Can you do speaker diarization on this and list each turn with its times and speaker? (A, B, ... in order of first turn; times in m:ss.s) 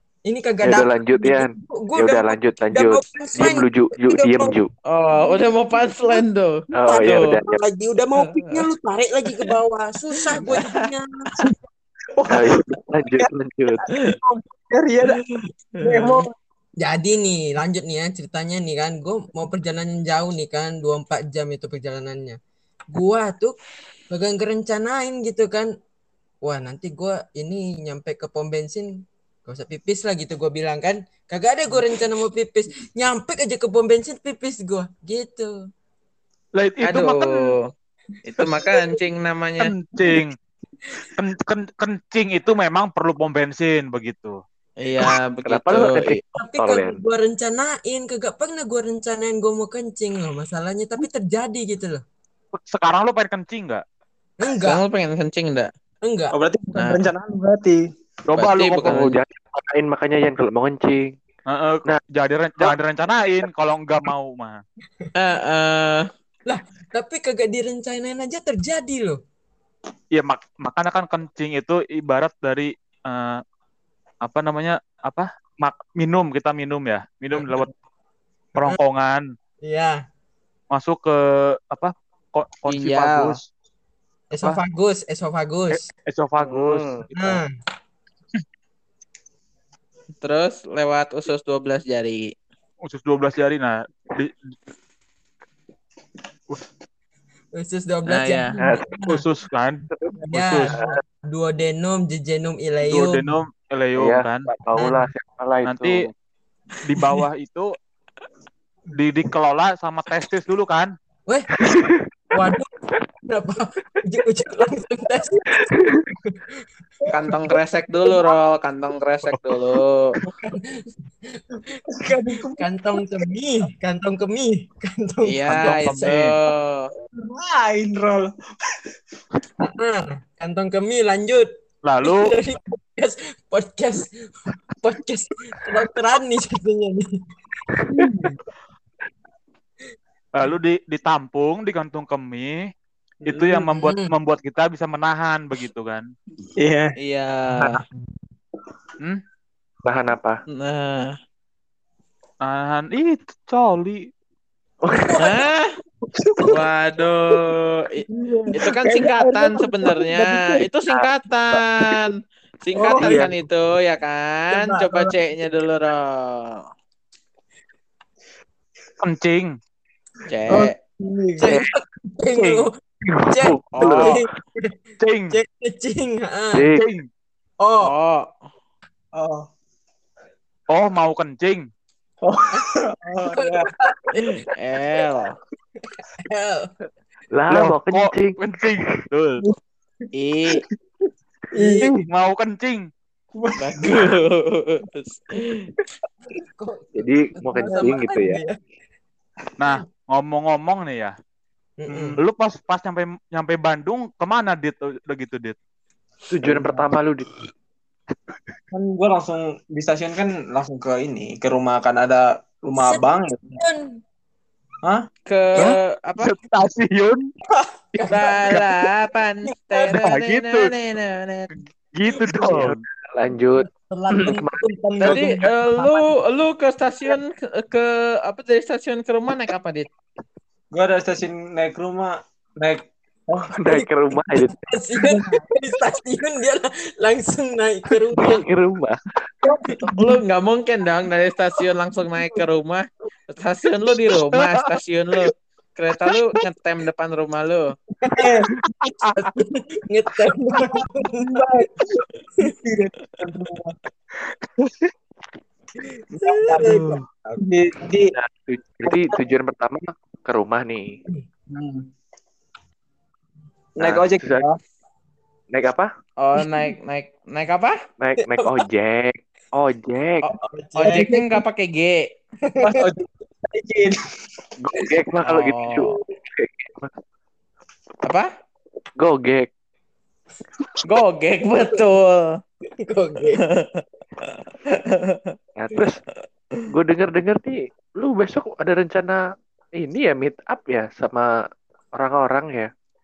0:00.3-0:04.6 A
0:00.6-0:04.7 B
0:04.9-0:07.4 C
0:06.0-0:06.2 A
0:06.7-0:07.6 B
0:06.8-0:11.1 A
0:08.2-0:08.6 C
0:10.4-0:10.8 C
0:12.2-0:13.3 D
0:12.3-0:13.9 B
0:13.9-0:14.2 C
0:13.9-0:15.2 D
0:15.1-0:16.2 C
0:15.8-0:16.3 D
0:16.8-0:22.4 A
0:23.0-0:23.6 A
0:24.1-0:25.7 A
0:26.4-0:28.9 A
0:29.5-0:35.5 A
0:36.6-0:37.5 E
0:36.8-0:37.5 C
0:38.2-0:39.7 C
0:39.6-0:40.4 E
0:41.2-0:44.4 E
0:44.8-0:46.2 C
0:45.5-0:47.0 B
0:46.4-0:52.0 A
0:52.6-0:53.8 E
0:54.4-0:54.8 A
0:54.6-0:55.7 C
0:56.0-0:56.3 A
0:56.3-0:57.8 D
0:56.8-0:57.0 C
0:58.3-0:59.1 E
0:58.3-0:59.2 C
0:58.8-1:01.1 B
1:01.5-1:04.6 E
1:05.2-1:06.0 C
1:06.5-1:09.2 A
1:10.1-1:13.4 E
1:14.2-1:17.7 E
1:17.3-1:17.6 A
1:18.6-1:19.2 E
1:19.6-1:20.0 A
1:20.7-1:23.5 E
1:22.7-1:23.4 C
1:24.3-1:25.8 A
1:25.7-1:27.4 E
1:26.4-1:27.0 B
1:27.2-1:27.5 A
1:30.2-1:32.3 C
1:32.8-1:34.4 E
1:37.6-1:39.2 A
1:38.1-1:38.6 C
1:38.6-1:38.9 B
1:39.0-1:40.8 E
1:39.9-1:40.2 B
1:40.2-1:43.4 A
1:40.7-1:41.0 B
1:42.8-1:44.5 E
1:44.0-1:46.1 B
1:44.8-1:45.1 A
1:45.6-1:46.1 E
1:46.8-1:47.7 E
1:48.9-1:50.9 E
1:51.3-1:51.8 A
1:51.6-1:52.0 B
1:52.3-1:52.7 A
1:53.3-1:56.4 A
1:55.5-1:56.0 B
1:57.1-2:00.1 C
2:01.3-2:06.2 A
2:01.9-2:02.7 D
2:05.2-2:06.9 C
2:05.5-2:06.3 E
2:07.1-2:08.8 D
2:09.6-2:11.5 A
2:11.8-2:12.4 E
2:12.0-2:17.1 A
2:17.7-2:18.4 A
2:20.4-2:22.6 E
2:23.2-2:23.7 D
2:23.3-2:26.1 E
2:23.8-2:24.1 A
2:26.6-2:26.9 D
2:27.0-2:27.8 C
2:29.8-2:30.4 B
2:30.6-2:31.1 C
2:32.4-2:34.1 E
2:34.8-2:35.3 B
2:35.2-2:35.7 C
2:36.1-2:36.7 D
2:36.4-2:46.6 C
2:38.1-2:40.7 D
2:40.9-2:41.6 B
2:42.8-2:43.4 D
2:43.0-2:43.3 B
2:44.6-2:45.2 A
2:49.0-2:49.6 E
2:50.3-2:50.8 C
2:50.5-2:51.6 D
2:51.4-2:52.7 A
2:52.3-2:52.7 E
2:53.1-2:54.3 B
2:53.2-2:54.7 A
2:53.7-2:54.2 C
2:55.0-2:55.4 E
2:55.3-2:56.7 A
2:56.5-2:56.8 B
2:56.7-2:57.1 E
2:57.6-2:57.9 A
2:57.8-2:58.3 C
2:59.1-2:59.5 D
3:00.7-3:01.7 E
3:02.2-3:03.8 D
3:03.2-3:04.1 A
3:04.1-3:05.4 C
3:06.2-3:06.7 A
3:07.3-3:08.8 B
3:07.5-3:09.4 E
3:10.1-3:10.6 C
3:11.5-3:12.1 D
3:11.6-3:11.9 A
3:12.1-3:12.9 E
3:13.4-3:14.1 D
3:13.6-3:15.6 C
3:16.3-3:18.5 A
3:17.0-3:18.4 B
3:19.6-3:21.1 E
3:21.8-3:22.2 A
3:21.9-3:22.2 D
3:22.2-3:25.6 E
3:26.3-3:27.3 B
3:26.4-3:26.9 D
3:28.7-3:33.6 D
3:32.8-3:34.0 A
3:35.3-3:36.3 C
3:35.6-3:37.3 E
3:37.6-3:38.6 A
3:38.0-3:41.5 C
3:39.4-3:40.0 A
3:39.9-3:40.7 E
3:41.5-3:42.8 E
3:42.1-3:44.7 B
3:43.6-3:45.9 A
3:44.8-3:45.4 D
3:45.0-3:49.9 C
3:50.7-3:52.8 D
3:53.4-3:54.6 B
3:53.7-3:58.4 A
3:58.2-3:59.0 B
3:59.9-4:07.6 C
4:04.4-4:04.7 E
4:08.0-4:08.4 A
4:08.1-4:08.5 D
4:08.8-4:09.3 E
4:09.2-4:11.5 A
4:11.3-4:13.8 D
4:16.1-4:17.3 A
4:16.2-4:18.1 D
4:18.1-4:21.0 B
4:23.8-4:24.6 D
4:23.8-4:24.4 B
4:25.5-4:25.9 B
4:26.2-4:27.8 C
4:28.0-4:30.3 B
4:28.2-4:28.6 A
4:30.6-4:31.2 D
4:30.8-4:32.1 C
4:30.8-4:31.3 A
4:32.4-4:32.8 A
4:32.6-4:34.0 D
4:34.6-4:36.9 B
4:35.2-4:36.0 C
4:39.0-4:39.5 B
4:40.8-4:42.3 C
4:42.8-4:43.4 A
4:43.5-4:43.8 C
4:44.5-4:45.3 C
4:45.6-4:46.0 B
4:46.7-4:49.2 B
4:49.8-4:51.3 B
4:52.0-4:52.7 B